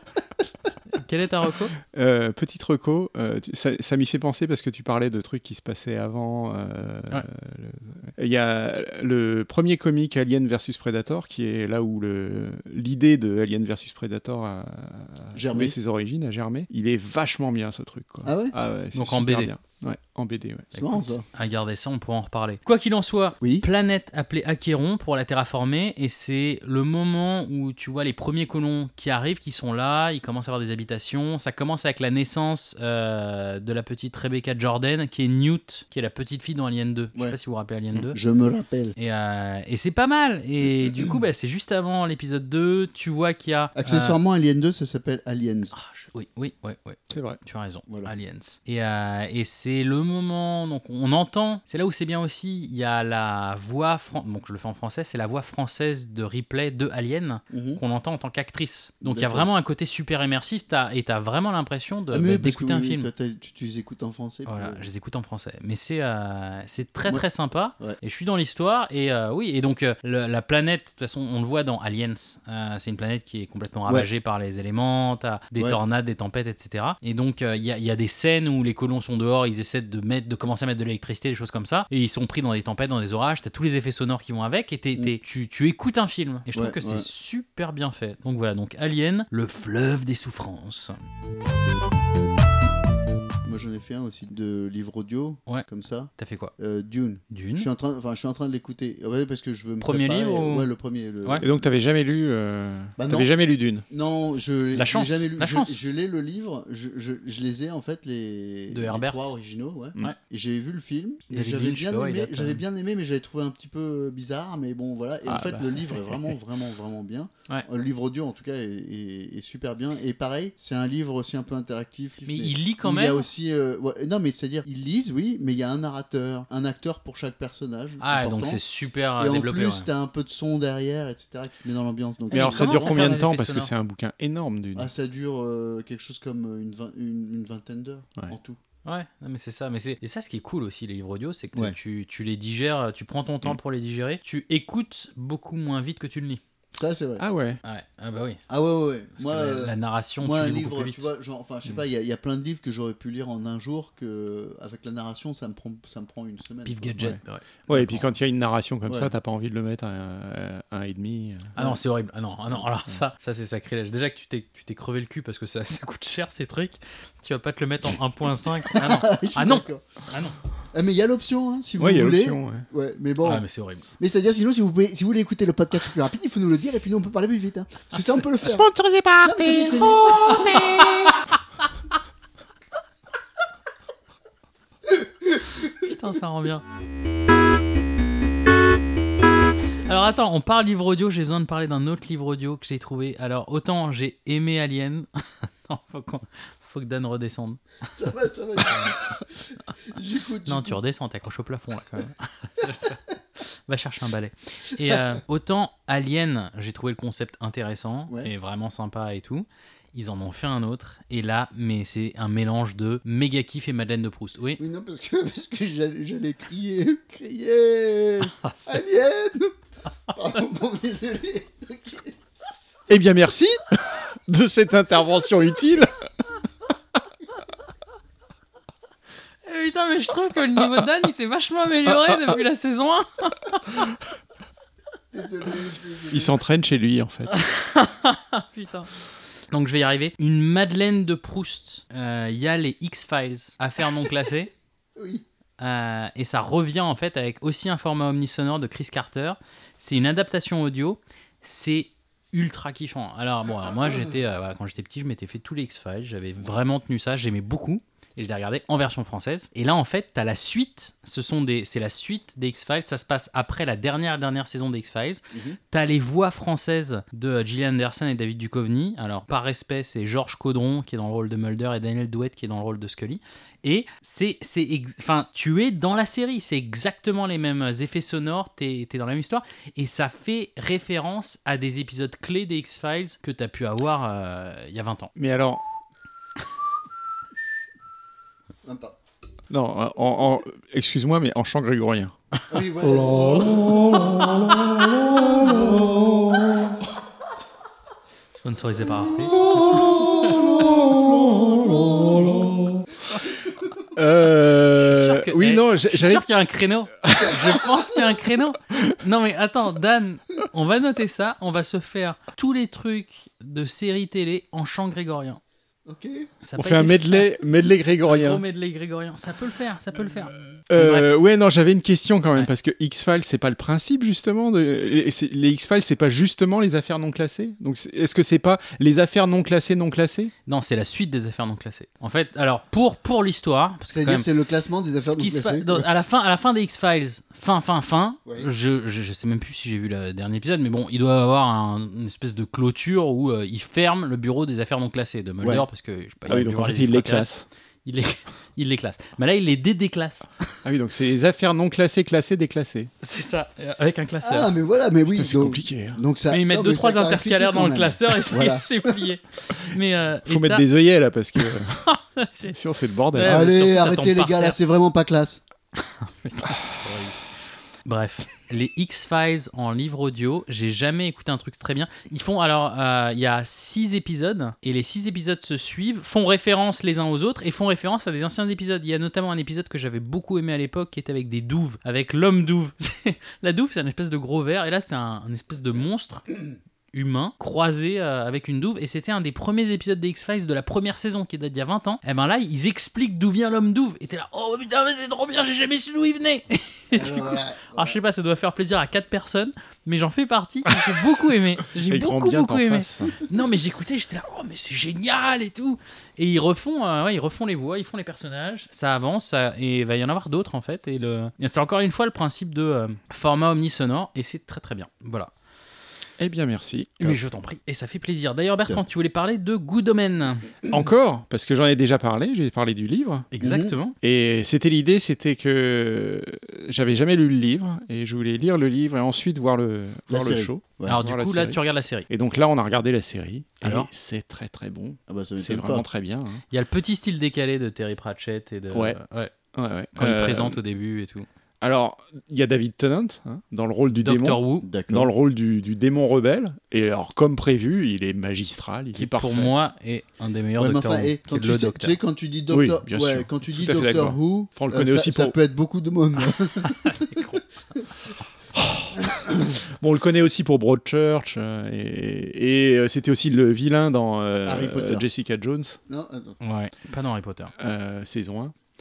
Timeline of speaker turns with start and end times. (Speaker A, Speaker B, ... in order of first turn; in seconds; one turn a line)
Speaker A: 0.9-1.7
Speaker B: 1.9-20.9
Speaker C: 15.3-15.7
Speaker C: 18.2-18.5
Speaker A: 18.9-19.5
Speaker C: 20.7-21.2
Speaker A: 20.7-38.1
Speaker C: 23.4-23.6
Speaker C: 38.1-38.9
Speaker A: 39.0-44.2
Speaker C: 40.8-41.2
Speaker C: 43.8-45.7
Speaker A: 45.7-63.1
Speaker B: 47.1-47.4
Speaker C: 47.9-48.1
Speaker C: 57.5-57.8
Speaker C: 59.0-59.5
Speaker C: 62.1-64.8
Speaker A: 64.5-91.0
Speaker C: 86.5-87.1
Speaker C: 93.4-101.5
Speaker A: 96.2-96.5
Speaker A: 97.3-97.7
Speaker A: 99.8-100.7
Speaker B: 101.4-103.8
Speaker C: 103.0-103.3
Speaker C: 103.9-128.6
Speaker A: 104.7-105.8
Speaker A: 108.7-109.3
Speaker A: 111.3-112.6
Speaker B: 115.3-116.2
Speaker A: 122.2-123.3
Speaker A: 128.0-129.9
Speaker C: 129.2-133.2
Speaker A: 132.3-133.7
Speaker B: 132.3-134.9
Speaker C: 134.7-138.6
Speaker A: 138.8-146.4
Speaker C: 146.7-147.2
Speaker B: 147.2-147.6
Speaker A: 147.6-148.4
Speaker C: 148.5-157.2
Speaker A: 149.2-151.1
Speaker A: 156.6-158.1
Speaker B: 157.0-161.5
Speaker A: 161.6-170.3
Speaker C: 168.6-169.8
Speaker C: 170.7-173.4
Speaker B: 171.8-172.6
Speaker A: 173.2-173.8
Speaker C: 174.0-178.7
Speaker B: 178.4-181.1
Speaker C: 179.2-181.1
Speaker A: 185.8-186.6
Speaker A: 189.8-197.6
Speaker C: 197.9-200.8
Speaker A: 200.4-203.0
Speaker A: 203.7-214.6
Speaker C: 214.6-219.6
Speaker A: 218.2-218.8
Speaker C: 220.1-222.5
Speaker B: 222.9-226.0
Speaker A: 229.4-233.8
Speaker B: 231.9-232.2
Speaker C: 235.1-236.3
Speaker B: 236.1-237.3
Speaker A: 237.3-238.9
Speaker A: 239.5-244.5
Speaker C: 244.9-245.2
Speaker A: 245.6-285.1
Speaker C: 265.3-265.6
Speaker B: 285.1-285.6
Speaker C: 288.6-288.9
Speaker B: 289.5-292.1
Speaker C: 292.5-294.3
Speaker B: 293.0-296.0
Speaker C: 295.3-296.4
Speaker A: 298.3-300.4
Speaker B: 299.5-302.8
Speaker C: 299.7-302.5
Speaker B: 303.9-306.2
Speaker A: 304.7-315.4
Speaker B: 307.1-307.5
Speaker C: 315.9-316.3
Speaker A: 316.4-317.3
Speaker B: 316.6-318.4
Speaker A: 318.0-321.1
Speaker B: 320.7-330.3
Speaker A: 330.4-334.3
Speaker C: 333.9-335.9
Speaker A: 335.0-347.3
Speaker B: 346.3-347.4
Speaker A: 347.9-350.3
Speaker B: 350.6-352.9
Speaker A: 353.0-354.5
Speaker C: 354.2-359.0
Speaker B: 355.1-356.0
Speaker A: 356.3-360.6
Speaker B: 360.2-361.8
Speaker A: 361.4-362.5
Speaker B: 362.5-363.5
Speaker A: 363.1-364.6
Speaker C: 363.2-365.4
Speaker A: 365.8-367.2
Speaker A: 367.8-386.2
Speaker A: 386.9-415.3
Speaker C: 396.9-398.0
Speaker B: 401.8-403.2
Speaker B: 416.2-417.1
Speaker A: 417.0-420.5
Speaker B: 420.7-423.3
Speaker A: 423.3-423.9
Speaker C: 423.4-423.7
Speaker B: 424.0-436.4
Speaker C: 430.1-431.0
Speaker A: 430.9-432.1
Speaker A: 433.6-433.9
Speaker C: 435.1-435.8
Speaker A: 436.5-439.3
Speaker B: 438.7-439.0
Speaker B: 439.5-440.6
Speaker A: 439.9-441.3
Speaker B: 441.6-449.5
Speaker A: 444.0-444.7
Speaker C: 444.6-445.1
Speaker A: 448.9-452.0
Speaker C: 450.6-457.8
Speaker B: 452.5-455.4
Speaker A: 456.8-457.4
Speaker B: 458.5-465.8
Speaker C: 459.0-459.5
Speaker C: 464.4-465.0
Speaker C: 465.9-466.4
Speaker A: 466.4-467.5
Speaker B: 467.6-468.5